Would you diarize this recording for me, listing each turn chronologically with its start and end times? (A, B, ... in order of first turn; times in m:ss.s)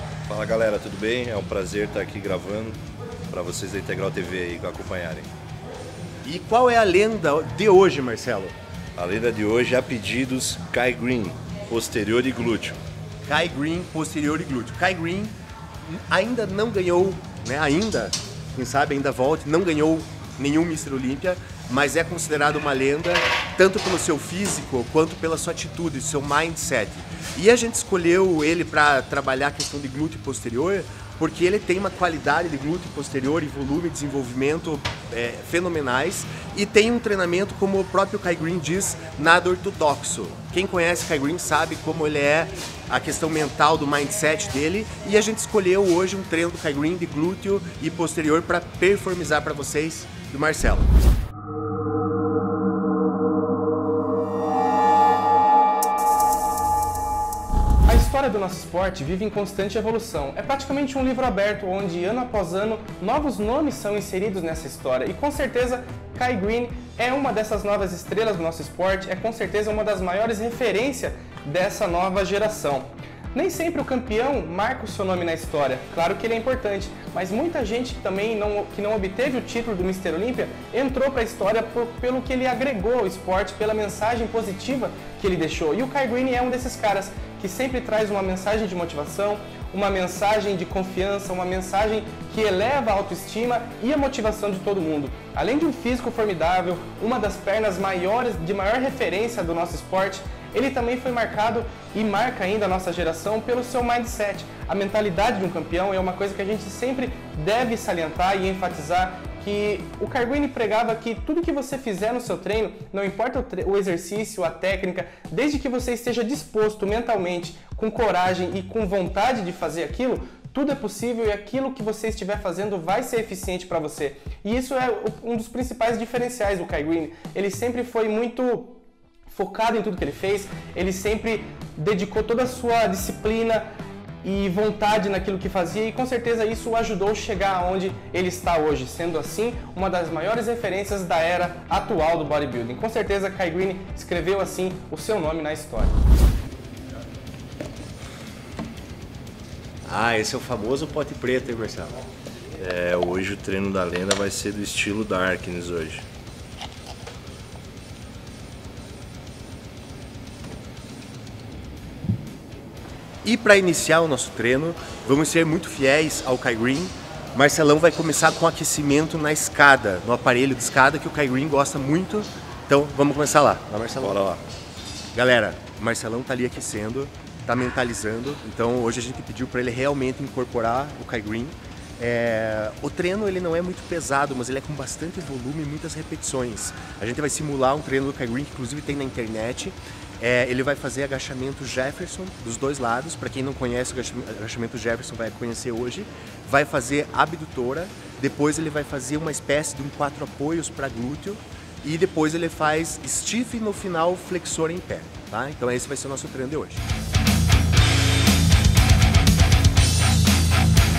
0:00.3-0:05.3 A
0:06.2-0:08.6 B
0:09.0-0:12.8 A
0:13.3-0:50.9 B
0:57.8-2:13.7 C
2:14.2-2:26.0 C
2:29.8-2:32.0 B
2:32.6-2:36.0 A
2:43.2-2:54.2 B
2:54.0-2:54.4 A
2:55.1-3:26.8 B